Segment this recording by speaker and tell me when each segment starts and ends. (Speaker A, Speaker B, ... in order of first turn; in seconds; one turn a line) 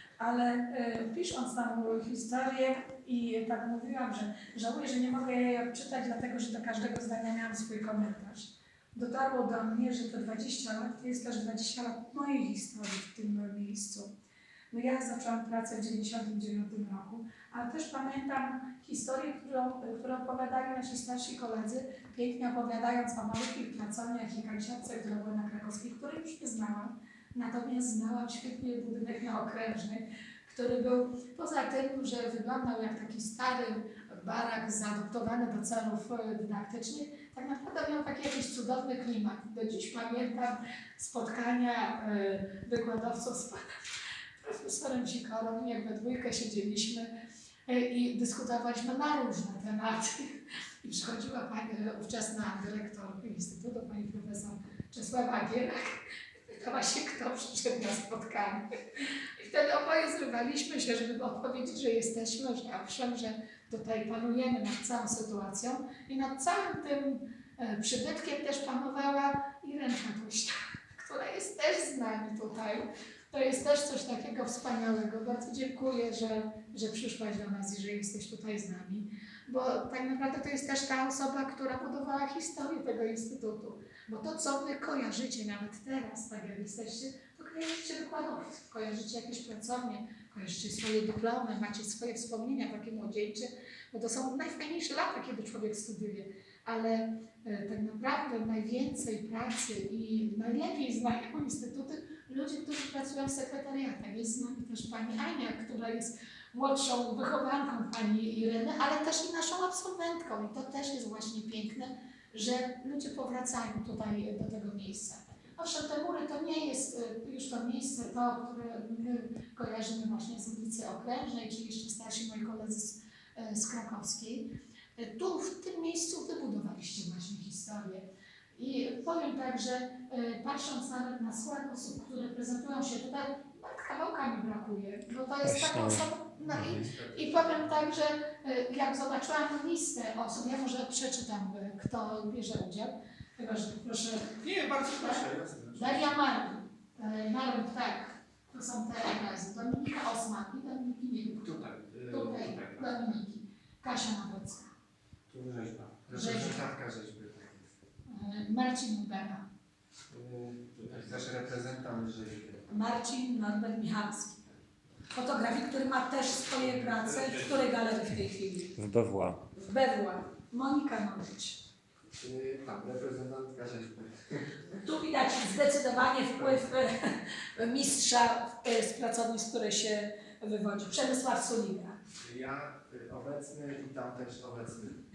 Speaker A: 0.2-14.1
Speaker A: 14.7-47.1
Speaker A: 47.7-144.4
Speaker B: 135.4-136.8
Speaker C: 136.4-138.0
Speaker C: 144.4-146.2
Speaker A: 144.9-154.7
Speaker C: 151.4-153.2
Speaker C: 155.3-157.7
Speaker A: 156.1-156.6
Speaker A: 158.1-159.4
Speaker C: 160.1-162.7
Speaker A: 162.7-164.5
Speaker A: 165.1-168.8
Speaker C: 166.6-167.7
Speaker B: 168.8-169.4
Speaker A: 169.5-171.6
Speaker C: 172.2-174.8
Speaker A: 174.8-182.0
Speaker C: 176.3-176.7
Speaker C: 182.2-185.0